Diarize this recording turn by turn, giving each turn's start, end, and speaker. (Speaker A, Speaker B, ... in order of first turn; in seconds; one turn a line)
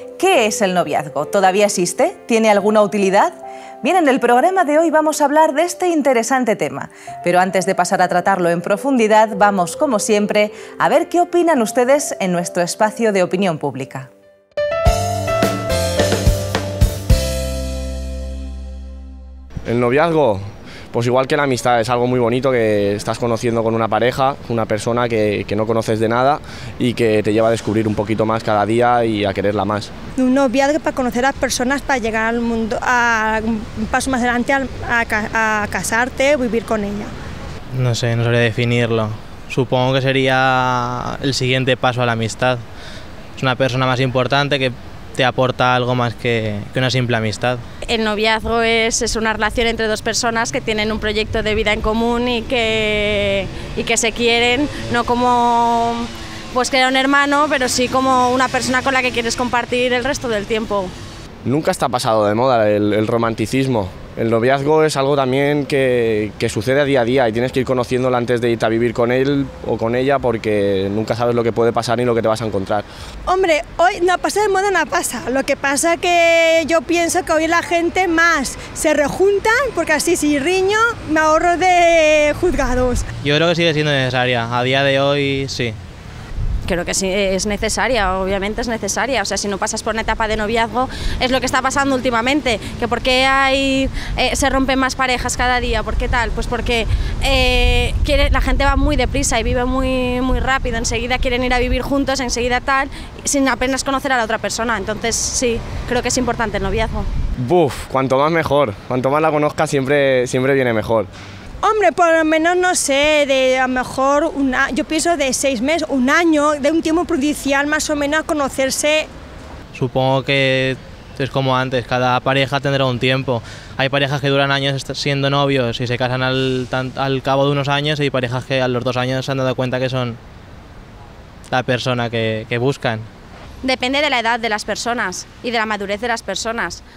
Speaker A: 0.2-14.1
Speaker B: 19.7-29.9
Speaker C: 30.2-37.1
Speaker D: 37.7-42.6
Speaker D: 43.4-47.6
Speaker E: 47.9-60.9
Speaker B: 61.5-72.9
Speaker C: 73.3-83.1
Speaker D: 83.2-85.8
Speaker E: 86.7-107.1
Speaker B: 107.4-111.1
Speaker C: 111.6-119.1
Speaker D: 119.7-130.2
Speaker D: 131.5-133.1
Speaker E: 133.6-136.8